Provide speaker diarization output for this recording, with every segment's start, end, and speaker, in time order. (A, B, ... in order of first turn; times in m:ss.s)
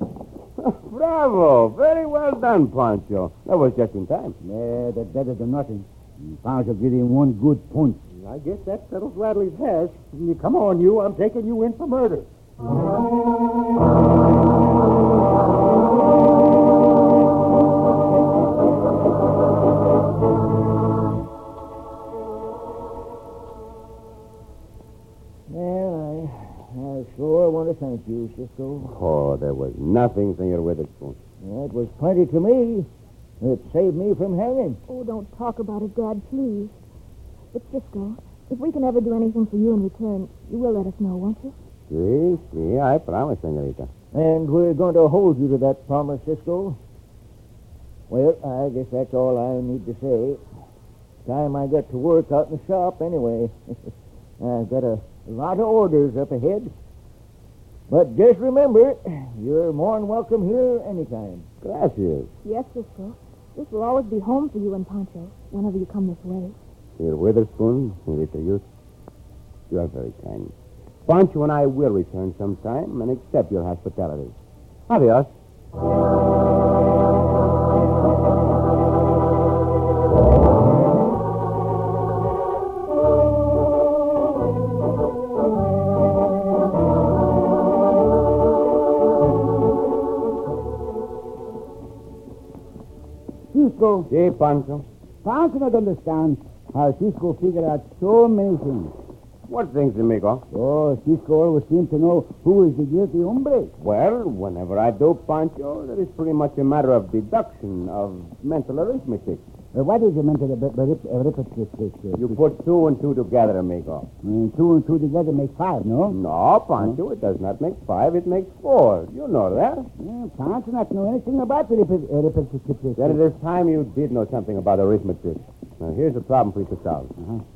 0:00.6-0:04.4 A
0:04.4-0:08.0 B
0:08.1-0:12.3 C
0:25.5-0:28.9 D
0:28.8-0:31.2 A
0:31.4-0:32.9 D
0:33.4-0:34.8 D
0:34.9-0:36.7 E
0:37.5-0:41.5 E
0:41.9-0:43.9 A
0:44.1-0:46.8 D
0:48.1-0:50.4 D
0:51.2-0:56.7 D
0:57.9-1:01.4 D
1:01.6-1:02.3 A
1:02.4-1:06.6 E
1:07.0-1:08.6 A
1:09.7-1:10.5 A
1:11.0-1:14.3 A
1:14.9-1:15.3 A
1:33.5-1:34.1 B
1:34.1-1:34.8 A
1:35.2-1:38.9 B
1:39.5-1:40.4 A
1:40.5-1:43.7 B
1:43.8-1:49.4 A
1:49.7-1:52.4 B
1:52.2-1:54.1 A
1:54.2-1:56.2 B
1:56.1-1:59.9 A
2:00.0-2:03.2 B
2:03.0-2:07.1 A